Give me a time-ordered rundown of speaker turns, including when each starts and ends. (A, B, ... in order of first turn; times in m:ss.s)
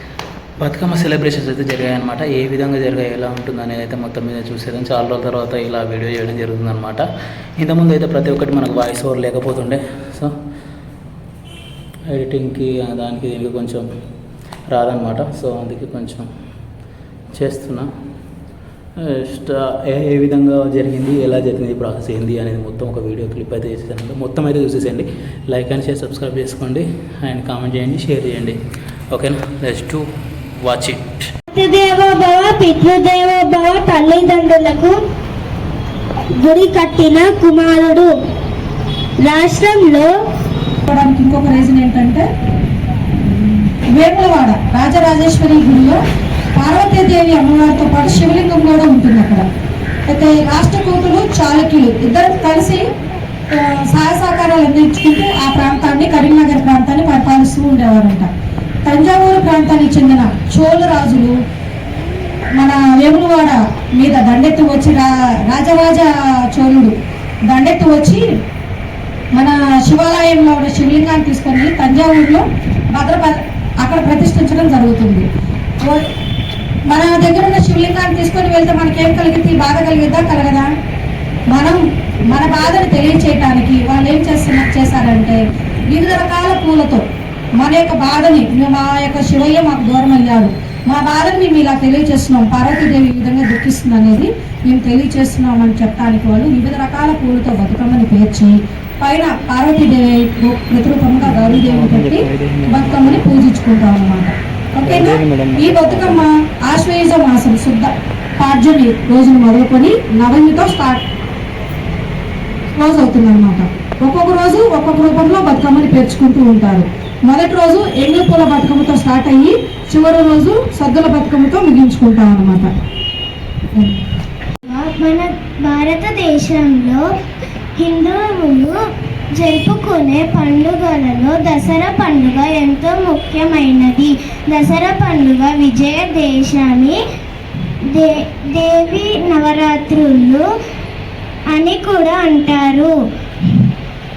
0:00.6-0:07.0 A
0:07.6-0:10.3 A
0:12.1-0:13.9 A
0:14.7-0:16.3 A
0:17.4-0:17.9 A
0:19.1-0:28.6 A
0:29.1-0:30.1 A
0:30.6-0:31.3 A
0:31.5-0:35.0 B
0:36.3-0:38.1 B
0:39.2-0:40.1 B
0:40.9-0:42.2 C
0:43.4-0:46.0 C
0:46.6-0:49.5 C
0:50.1-0:52.9 C
0:53.6-0:58.3 C
0:58.9-1:01.3 C
1:02.6-1:07.0 C
1:07.5-1:08.2 C
1:09.4-1:15.3 C
1:16.9-1:20.7 C
1:21.5-1:21.8 C
1:22.3-1:25.4 C
1:25.9-1:27.0 C
1:27.6-1:51.0 C
1:41.2-1:43.3 A
1:44.8-1:46.3 A
1:52.8-2:02.7 C
2:04.7-2:07.0 B
2:07.8-2:08.8 B
2:09.4-2:17.0 B
2:17.9-2:20.4 B
2:21.5-2:22.9 B